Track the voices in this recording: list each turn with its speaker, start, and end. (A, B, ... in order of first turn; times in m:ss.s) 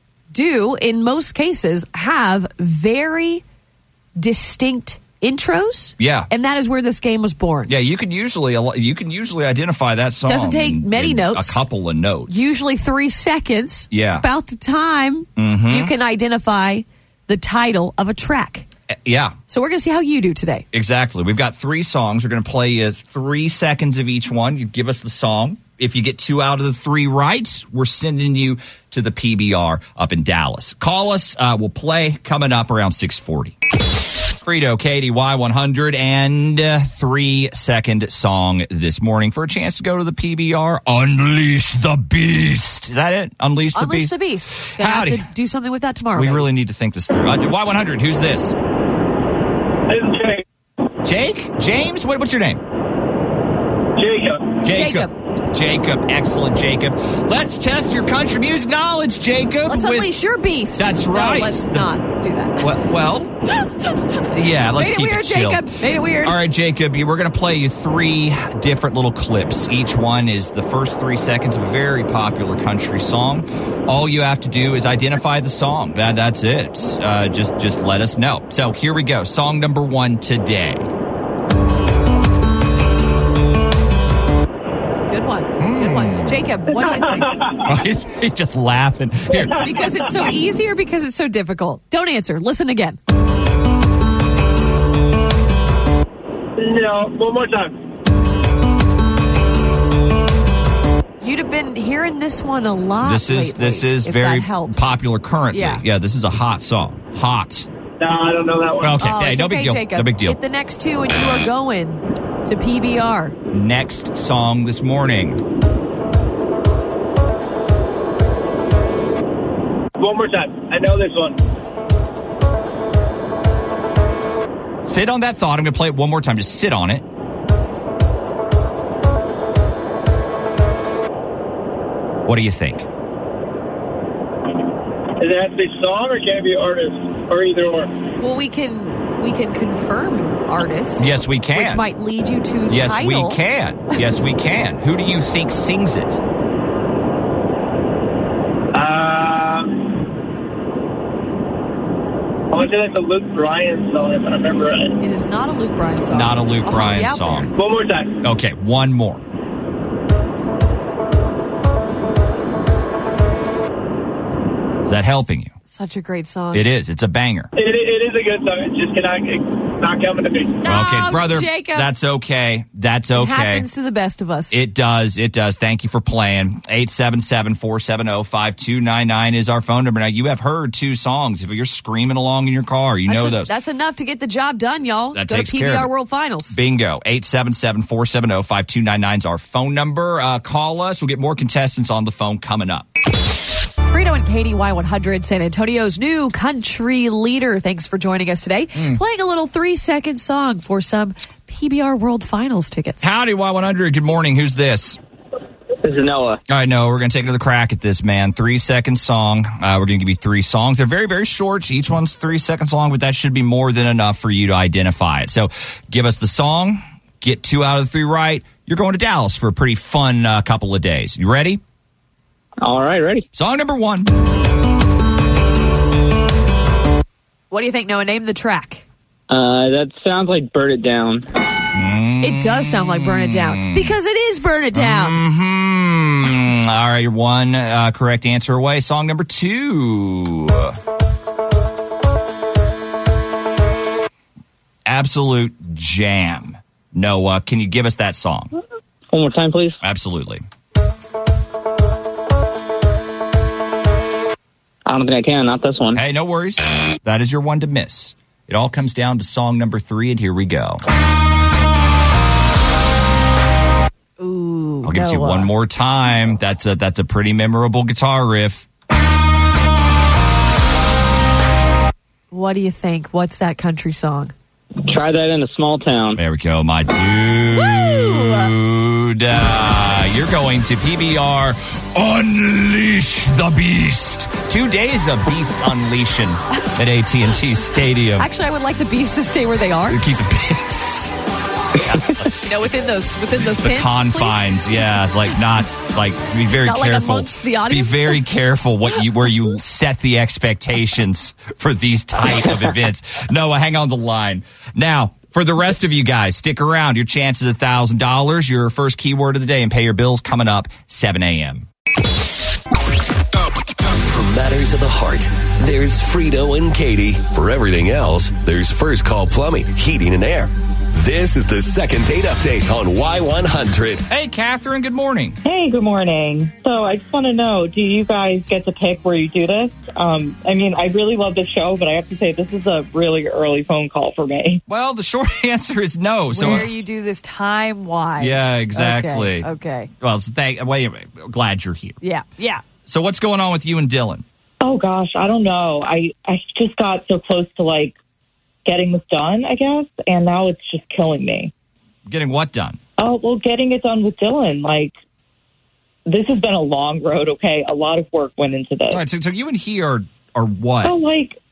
0:00.3-0:03.4 A
0:04.2-0:07.7 A
0:06.0-0:06.3 B
0:07.7-0:12.5 B
0:10.3-0:11.6 A
0:12.3-0:18.7 A
0:13.9-0:14.2 B
0:15.4-0:15.9 B
0:18.9-0:19.4 B
0:19.5-0:20.6 A
0:20.7-0:33.6 B
0:34.4-0:45.3 B
0:43.7-0:46.5 A
0:46.1-0:48.5 B
0:49.9-0:50.4 C
0:51.0-0:52.6 B
0:54.0-0:54.6 C
0:54.6-1:00.1 B
0:54.6-0:55.1 A
0:59.7-1:02.9 A
1:00.8-1:01.9 B
1:02.6-1:03.3 B
1:03.6-1:04.2 A
1:04.3-1:20.9 B
1:04.8-1:06.4 A
1:25.1-1:27.4 A
1:25.6-1:26.4 B
1:27.3-1:27.6 C
1:27.6-1:29.6 B
1:29.6-1:33.0 A
1:36.6-1:37.7 C
1:41.2-1:45.0 A
1:43.0-1:47.7 B
1:45.5-1:45.8 A
1:48.0-1:49.0 C
1:48.8-1:50.4 B
1:49.0-1:53.4 A
1:53.5-1:55.4 B
2:00.0-2:01.4 C
2:04.8-2:07.0 B
2:12.2-2:12.9 B
2:15.2-2:17.9 C
2:18.2-2:23.4 A
2:21.0-2:21.8 B
2:22.7-2:26.2 B
2:28.7-2:29.9 C
2:32.5-2:34.9 C
2:35.0-2:37.5 A
2:36.1-2:37.5 B
2:37.6-2:38.2 C
2:38.2-2:39.2 B
2:44.8-2:45.5 B
2:45.6-2:46.6 A
2:46.5-2:47.5 B
2:47.6-2:50.6 C
2:50.6-2:51.9 A
2:50.6-2:53.7 B
2:53.1-2:54.6 A
2:54.5-3:03.5 B
3:03.1-3:06.6 A
3:05.1-3:05.9 B
3:06.5-3:12.9 B
3:13.8-3:23.1 A
3:18.7-3:19.0 B
3:23.0-3:25.0 B
3:25.8-3:26.4 D
3:26.5-3:41.6 B
3:42.6-3:43.2 D
3:43.3-3:44.1 B
3:47.5-3:48.8 A
3:49.3-3:51.2 D
3:51.7-3:53.9 B
3:52.2-3:55.2 A
3:54.7-4:00.8 B
4:04.8-4:08.5 B
4:09.1-4:09.8 D
4:09.8-4:10.4 B
4:14.9-4:16.0 D
4:15.9-4:20.8 B
4:24.2-4:25.5 A
4:24.8-4:28.7 B
4:32.3-4:34.3 A
4:34.8-4:36.2 D
4:36.2-4:48.3 B
4:37.5-4:38.5 A
4:48.2-4:50.0 A
4:49.9-4:51.1 B
4:51.7-5:11.7 B
4:52.4-4:54.4 A
4:56.6-4:58.2 A
5:13.8-5:24.0 E
5:24.1-5:25.4 B
5:25.4-5:34.6 F
5:34.7-5:36.7 B
5:36.3-5:39.9 A
5:38.2-5:39.5 B
5:40.0-5:42.0 B
5:42.0-5:42.6 A
5:42.8-5:44.2 B
5:44.6-5:48.0 F
5:48.6-5:51.5 F
5:52.0-5:52.8 B
5:53.0-5:54.9 F
5:56.0-5:59.0 F
5:58.9-6:01.0 B
6:00.8-6:01.4 F